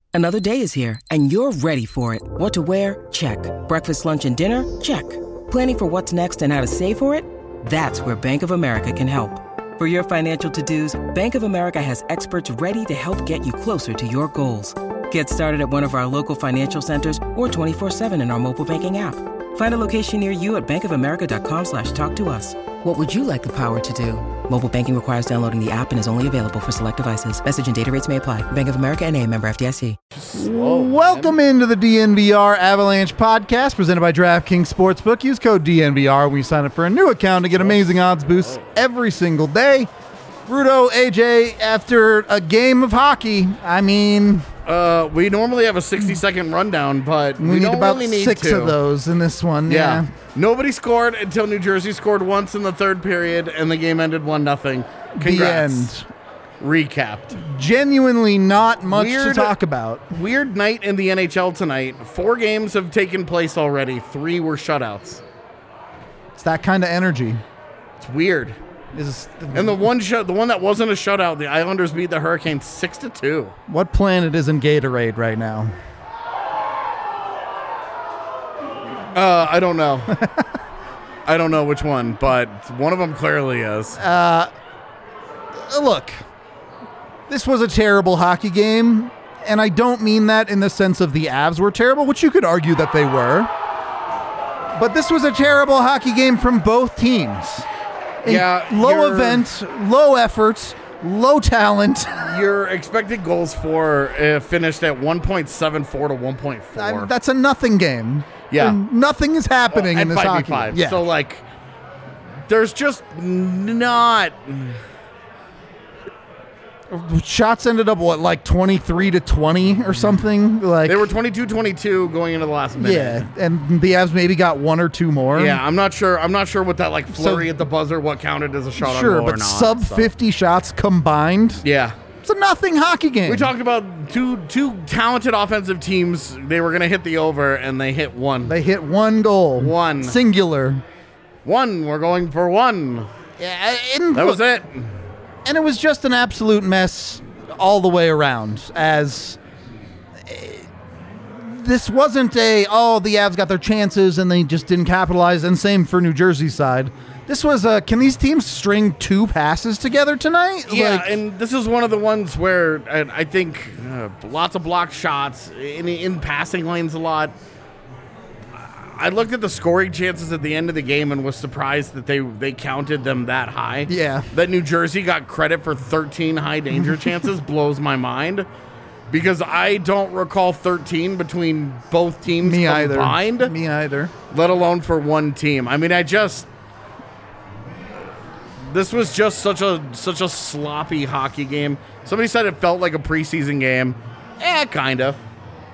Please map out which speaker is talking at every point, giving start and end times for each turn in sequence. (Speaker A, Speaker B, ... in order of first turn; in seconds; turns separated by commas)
Speaker A: 0.1-30.0, Speaker B: 30.1-31.4, Speaker C: 30.3-39.9, Speaker B: 37.5-38.8, Speaker C: 40.5-44.5, Speaker B: 44.6-48.8, Speaker C: 47.4-50.1, Speaker B: 49.7-55.9, Speaker C: 55.2-56.1, Speaker B: 56.6-57.4, Speaker C: 57.3-60.2, Speaker B: 58.9-59.5, Speaker B: 60.1-65.2, Speaker C: 66.4-67.4, Speaker B: 68.0-68.6, Speaker C: 68.9-69.8, Speaker B: 69.5-73.5, Speaker C: 73.7-75.7, Speaker B: 79.1-80.2, Speaker C: 80.1-80.5, Speaker B: 81.3-84.0, Speaker C: 84.0-84.5, Speaker C: 85.5-86.2, Speaker C: 87.3-93.5, Speaker C: 94.7-97.7, Speaker B: 98.2-99.5, Speaker C: 98.2-102.4, Speaker B: 102.2-107.1, Speaker C: 106.8-111.0, Speaker B: 108.5-108.8, Speaker B: 109.7-111.4, Speaker B: 112.5-114.8, Speaker C: 116.9-121.1, Speaker B: 120.8-123.2, Speaker C: 122.8-125.6, Speaker B: 125.3-130.1, Speaker C: 127.1-127.5, Speaker C: 128.8-131.6, Speaker B: 131.6-132.0, Speaker C: 132.2-133.5, Speaker B: 133.3-138.6, Speaker C: 138.5-140.8, Speaker B: 139.6-140.2, Speaker B: 141.4-143.1, Speaker C: 143.4-144.4, Speaker B: 144.2-144.9, Speaker C: 145.4-149.4, Speaker C: 150.2-150.7, Speaker C: 151.2-161.2, Speaker B: 160.7-167.3, Speaker B: 168.6-178.5, Speaker C: 173.9-174.3, Speaker B: 179.1-183.5, Speaker C: 182.4-184.1, Speaker B: 184.3-186.5, Speaker B: 188.7-195.2